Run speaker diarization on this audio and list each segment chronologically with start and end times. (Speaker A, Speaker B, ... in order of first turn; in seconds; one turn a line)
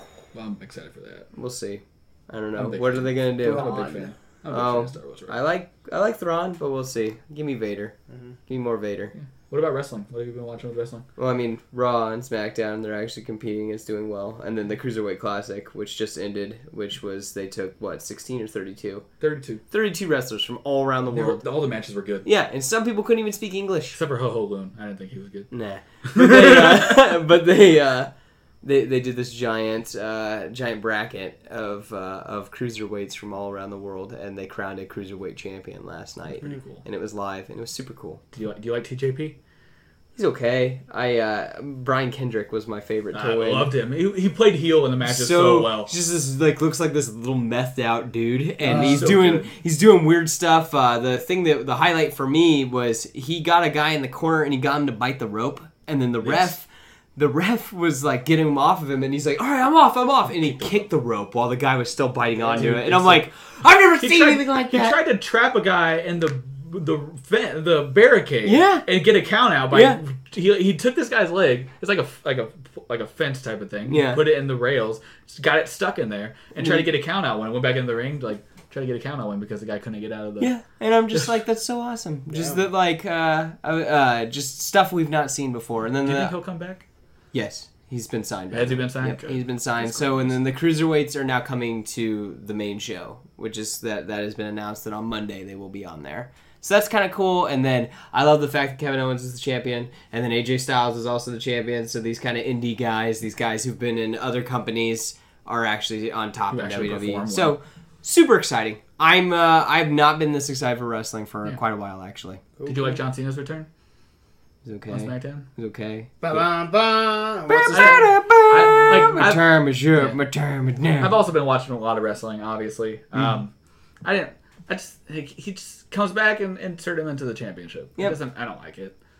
Speaker A: 0.3-1.3
Speaker B: 1.4-3.9
Speaker A: 2.6-5.4
Speaker C: 3.4-4.1
Speaker B: 4.5-7.9
Speaker B: 8.5-9.1
Speaker A: 9.1-11.1
Speaker B: 11.2-19.1
Speaker A: 19.2-19.6
Speaker B: 19.7-21.5
Speaker A: 21.1-22.3
Speaker B: 22.2-24.0
Speaker A: 23.9-25.5
Speaker B: 25.5-28.1
Speaker A: 26.1-27.0
Speaker B: 28.6-38.2
Speaker A: 36.4-36.8
Speaker A: 38.3-39.4
Speaker B: 40.1-43.7
Speaker A: 43.1-45.9
Speaker B: 45.0-65.0
Speaker A: 48.6-49.5
Speaker C: 48.7-49.0
Speaker A: 56.2-56.5
Speaker A: 60.3-60.9
Speaker A: 62.5-63.3
Speaker A: 64.0-80.5
Speaker B: 68.4-68.8
Speaker B: 69.7-70.0
Speaker B: 73.9-74.2
Speaker B: 80.4-86.3
Speaker C: 82.3-82.6
Speaker A: 86.0-86.8
Speaker B: 87.3-112.4
Speaker A: 88.5-90.4
Speaker A: 106.5-107.6
Speaker C: 112.6-113.0
Speaker A: 112.7-113.7
Speaker B: 114.6-116.1
Speaker A: 114.9-115.5
Speaker C: 116.2-118.1
Speaker B: 117.5-121.2
Speaker A: 117.7-120.2
Speaker A: 121.0-123.5
Speaker A: 124.0-128.9